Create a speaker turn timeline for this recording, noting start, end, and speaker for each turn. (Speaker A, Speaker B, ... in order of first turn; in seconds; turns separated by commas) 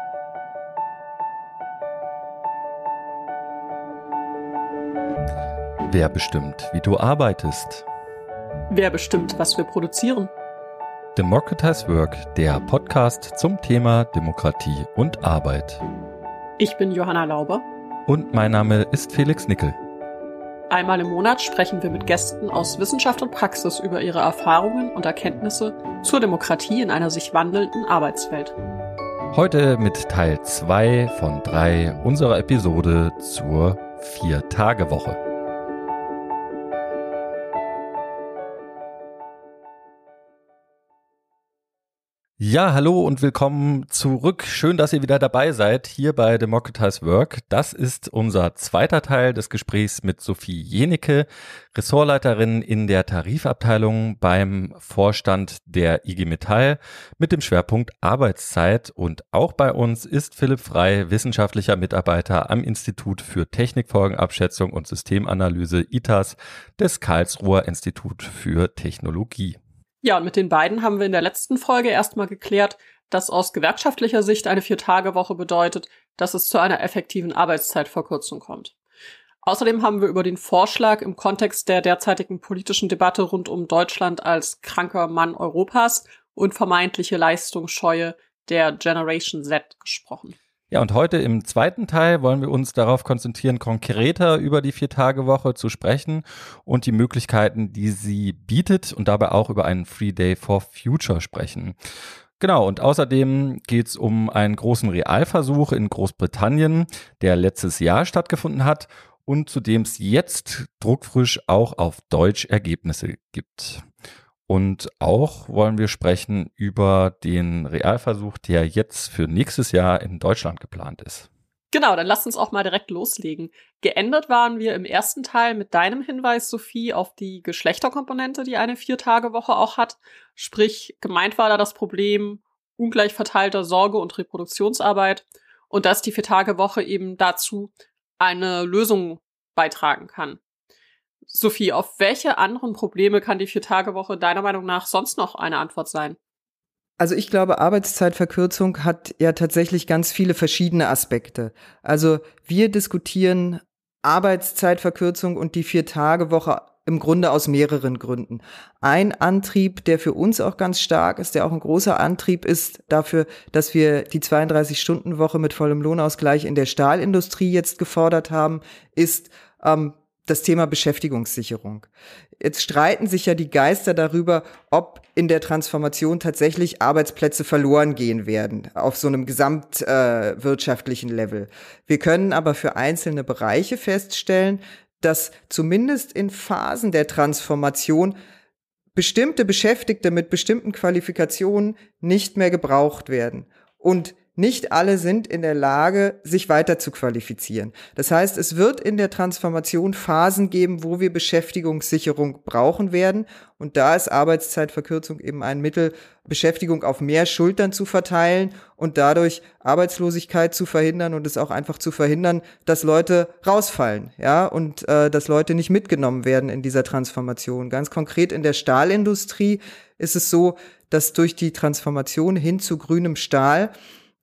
Speaker A: 5.9-7.8, Speaker B: 8.7-10.3, Speaker A: 11.2-15.8, Speaker B: 16.6-17.6, Speaker A: 18.1-19.8, Speaker B: 20.7-28.6, Speaker A: 29.3-35.2, Speaker A: 42.4-69.6, Speaker B: 70.0-78.7, Speaker B: 79.4-90.4, Speaker A: 90.7-101.8, Speaker A: 102.4-113.8, Speaker A: 114.5-121.3, Speaker B: 121.7-140.4, Speaker B: 141.3-146.2, Speaker C: 147.0-171.9, Speaker C: 172.4-188.2, Speaker C: 188.9-223.7